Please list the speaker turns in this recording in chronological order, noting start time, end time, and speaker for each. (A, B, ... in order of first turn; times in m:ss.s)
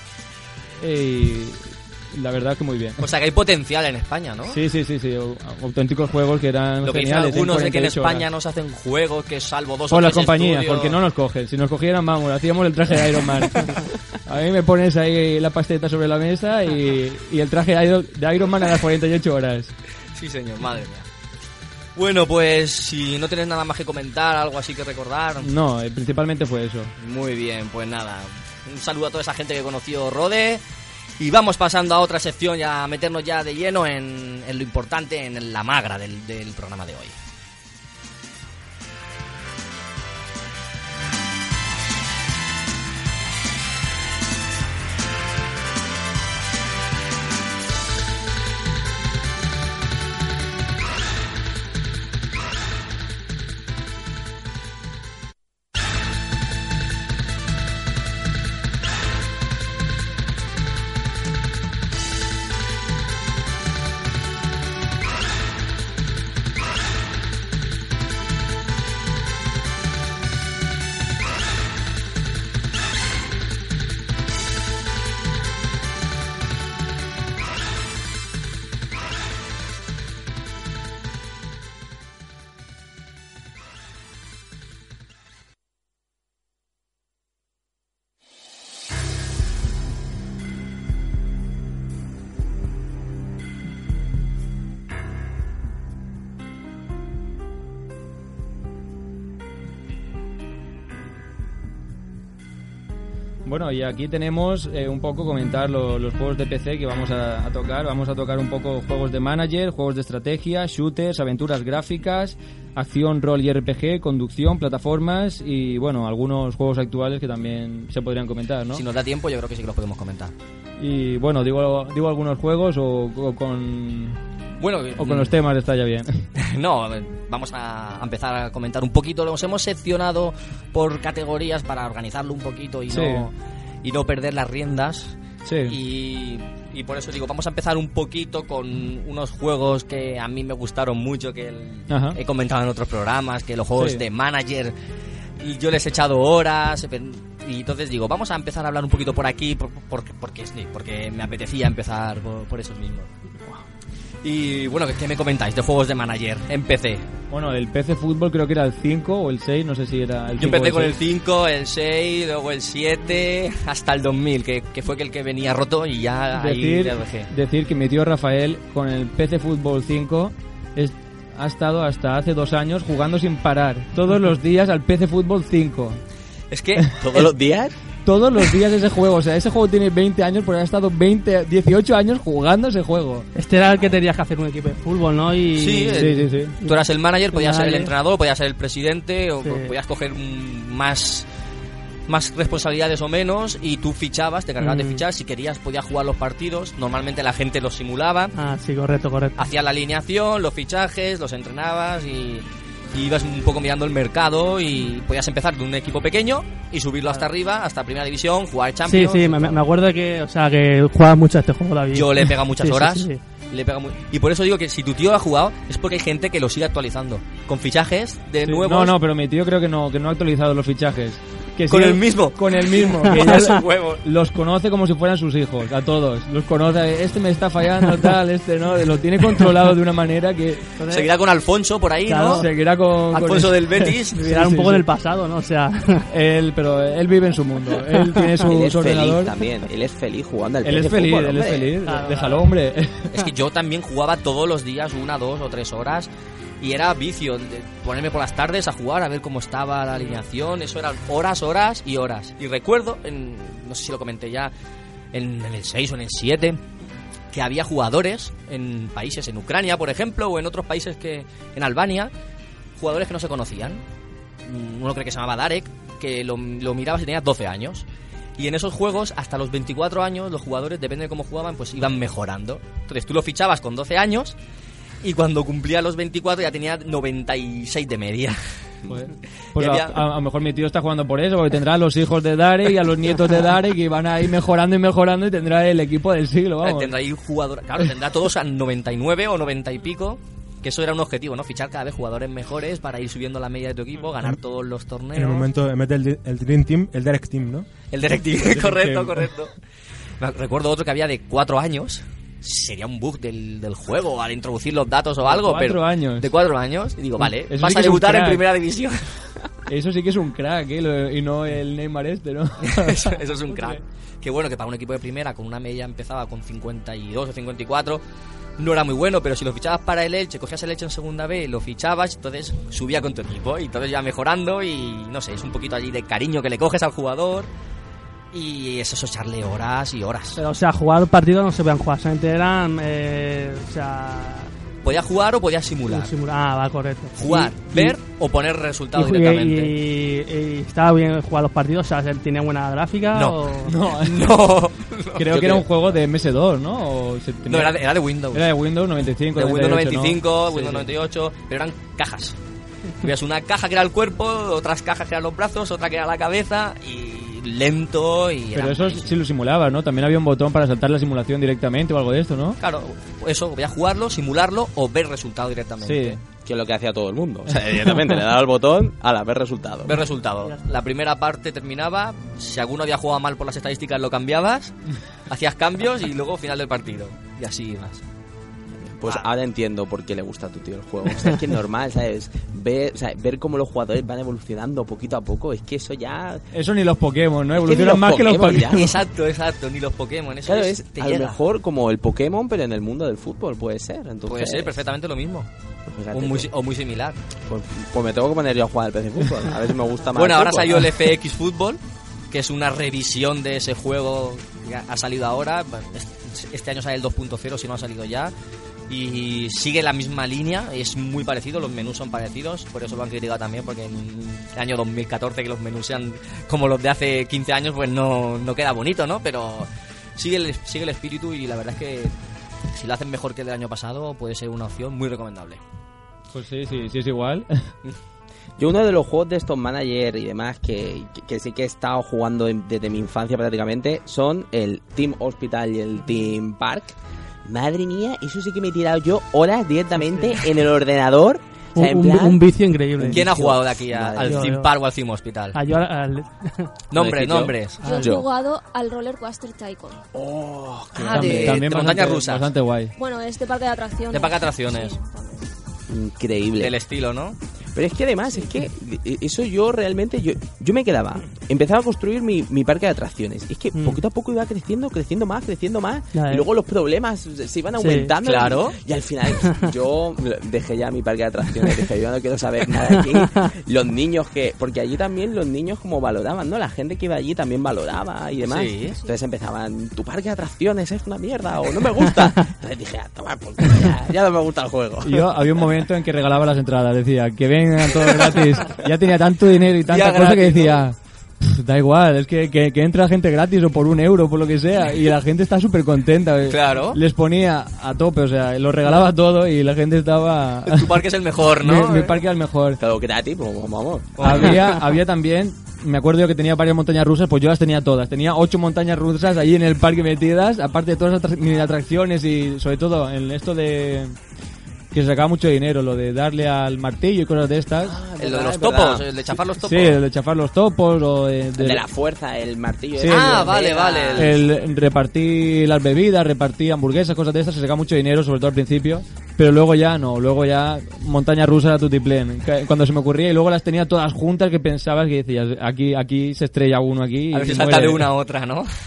0:00.8-0:03.0 A
0:03.0-0:04.6 B
0:04.5-0:08.3 A
0:06.8-0:11.0 B
0:09.9-0:19.7 A
0:20.1-0:21.0 B
0:22.0-0:25.5 B
0:25.4-0:26.9 A
0:27.0-0:30.6 B
0:31.2-0:37.2 B
1:43.4-1:58.8 A
1:58.7-2:00.3 B
2:00.8-2:04.2 A
2:04.6-2:05.4 B
2:05.0-2:06.2 A
2:06.4-2:24.7 B
2:12.9-2:13.3 A
2:15.4-2:15.8 A
2:21.9-2:22.2 A
2:23.8-2:24.0 A
2:25.4-2:33.1 B
2:34.2-2:37.0 B
2:37.3-2:41.0 A
2:40.4-2:47.3 B
2:46.3-2:56.0 A
2:56.5-2:57.2 B
2:56.8-2:57.3 A
2:57.0-2:57.7 C
2:58.0-3:03.3 A
3:03.3-3:06.8 D
3:05.5-3:11.3 B
3:06.0-3:06.6 A
3:07.3-3:07.9 D
3:09.4-3:09.7 D
3:12.1-3:18.3 B
3:14.6-3:15.0 D
3:18.3-3:19.4 D
3:19.4-3:29.6 B
3:28.8-3:33.2 D
3:31.9-3:39.0 B
3:38.4-3:50.7 A
3:41.7-3:44.0 B
3:50.8-3:51.1 D
3:50.9-3:52.4 B
3:52.0-3:52.5 D
3:52.3-3:54.8 A
3:53.1-3:54.2 B
3:54.1-3:56.1 D
3:56.1-3:59.4 A
3:57.9-3:58.5 D
3:58.5-4:01.7 C
4:00.6-4:03.1 A
4:01.8-4:02.4 D
4:03.1-4:06.1 B
4:06.6-4:14.5 B
4:15.1-4:16.6 B
4:17.3-4:22.1 B
4:22.8-4:23.8 B
4:24.4-4:27.8 B
4:28.4-4:34.4 B
4:35.0-4:38.4 B
4:38.9-4:46.9 A
4:39.5-4:40.0 B
4:46.6-4:55.5 B
4:55.1-4:57.7 E
4:57.9-4:59.5 B
4:58.4-4:59.3 A
5:00.2-5:09.0 B
5:05.2-5:06.3 A
5:07.2-5:08.4 A
5:09.7-5:13.8 A
5:12.6-5:18.0 B
5:18.6-5:27.5 B
5:28.3-5:30.4 B
5:30.4-5:34.5 D
5:34.8-5:36.1 B
5:35.9-5:38.0 D
5:37.2-5:39.7 B
5:38.9-5:43.7 D
5:43.1-5:43.4 B
5:43.6-5:44.3 A
5:43.9-5:45.6 B
5:45.2-5:50.9 A
5:47.5-5:48.5 B
5:49.3-5:52.4 B
5:53.0-5:59.1 B
5:58.5-6:02.6 A
6:02.6-6:06.2 B
6:05.8-6:06.2 A
6:06.4-6:10.0 C
6:09.8-6:14.7 B
6:15.3-6:18.0 B
6:18.9-6:26.4 C
6:26.5-6:28.9 A
6:27.6-6:28.9 C
6:28.7-6:31.4 B
6:30.4-6:34.8 C
6:34.3-6:35.5 B
6:35.9-6:36.5 C
6:36.1-6:37.2 B
6:37.5-6:40.9 C
6:40.1-6:41.8 B
6:42.3-6:48.3 B
6:48.9-7:02.1 B
7:02.7-7:05.6 B
7:06.3-7:07.5 A
7:08.6-7:22.4 C
7:20.0-7:20.4 D
7:21.7-7:23.3 D
7:23.0-7:24.6 C
7:23.1-7:25.6 B
7:24.2-7:24.7 D
7:25.5-7:26.7 D
7:26.9-7:27.8 B
7:26.9-7:28.3 C
7:27.8-7:30.0 F
7:27.8-7:28.1 D
7:30.1-7:31.7 C
7:30.9-7:32.5 B
7:31.1-7:32.9 A
7:33.0-7:35.5 F
7:34.1-7:35.0 B
7:35.9-7:36.8 C
7:36.6-7:37.4 B
7:37.7-8:05.3 C
7:43.8-7:44.0 D
7:46.1-7:46.5 D
7:47.8-7:48.1 D
7:48.2-7:48.8 B
7:58.4-7:59.0 B
8:05.0-8:21.0 A
8:09.9-8:10.8 B
8:16.5-8:17.0 B
8:20.6-8:22.2 B
8:21.6-8:22.8 A
8:22.8-8:24.5 C
8:24.2-8:24.8 B
8:24.2-8:34.2 A
8:34.9-8:38.0 A
8:37.8-8:39.1 C
8:38.2-8:40.0 B
8:39.6-8:41.8 A
8:41.6-8:44.4 C
8:43.0-8:43.6 A
8:43.0-8:44.4 B
8:44.1-8:58.1 A
8:57.3-8:58.7 B